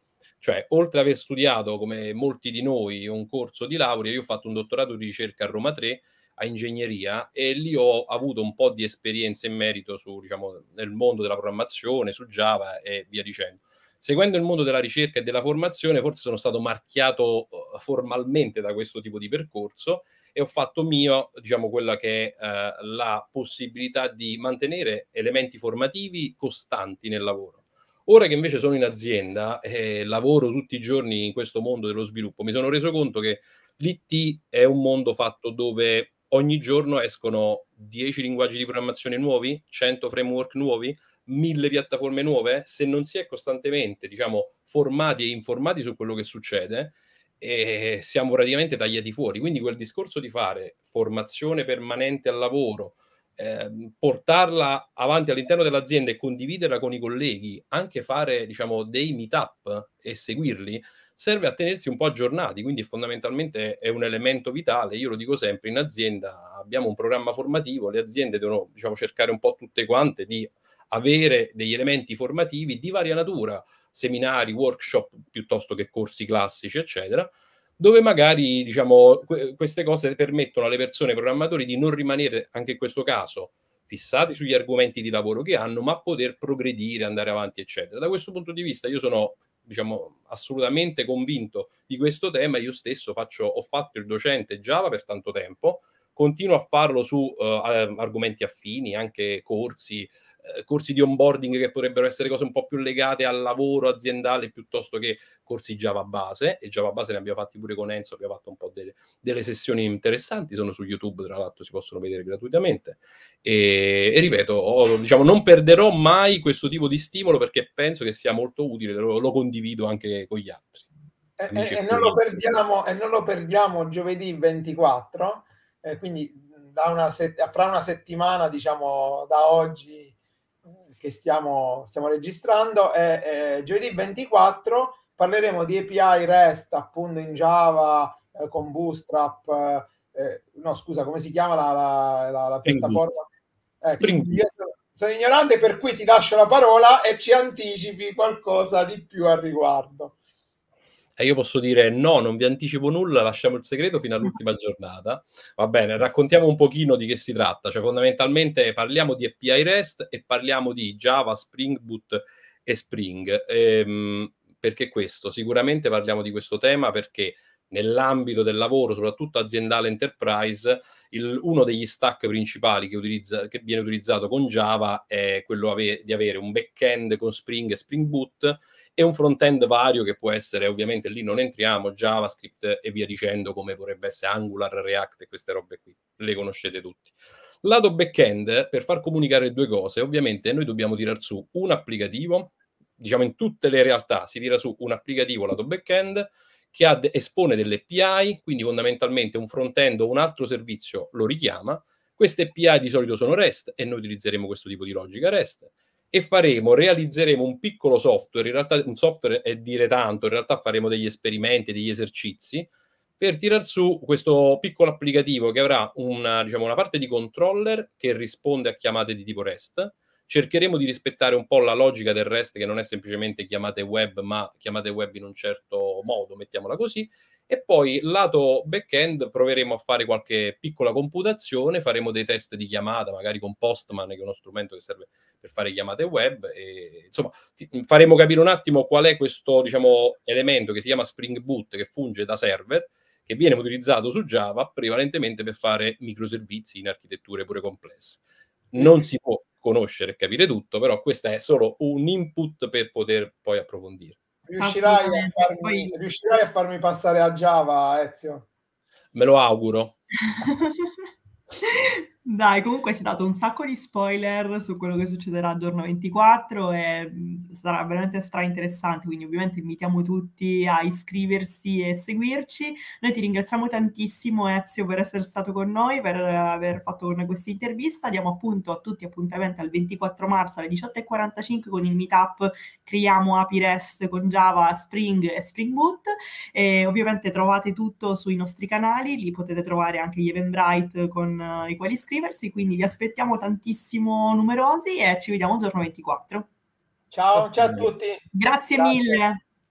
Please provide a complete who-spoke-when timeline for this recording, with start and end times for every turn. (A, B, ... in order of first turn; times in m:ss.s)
0:00.4-2:00.9 A
2:01.4-2:10.2 B
2:01.5-2:02.2 A
2:10.7-2:23.3 B
2:22.6-2:23.0 A
2:23.8-2:30.2 B
2:24.0-2:24.4 A
2:24.0-2:24.4 C
2:31.2-4:14.2 A
4:14.5-4:18.5 B
4:14.6-4:15.9 C
4:19.1-4:20.0 A
4:20.4-4:20.9 C
4:21.6-4:56.5 C
4:57.1-4:59.2 B
4:57.4-4:57.9 A
4:58.3-4:59.4 C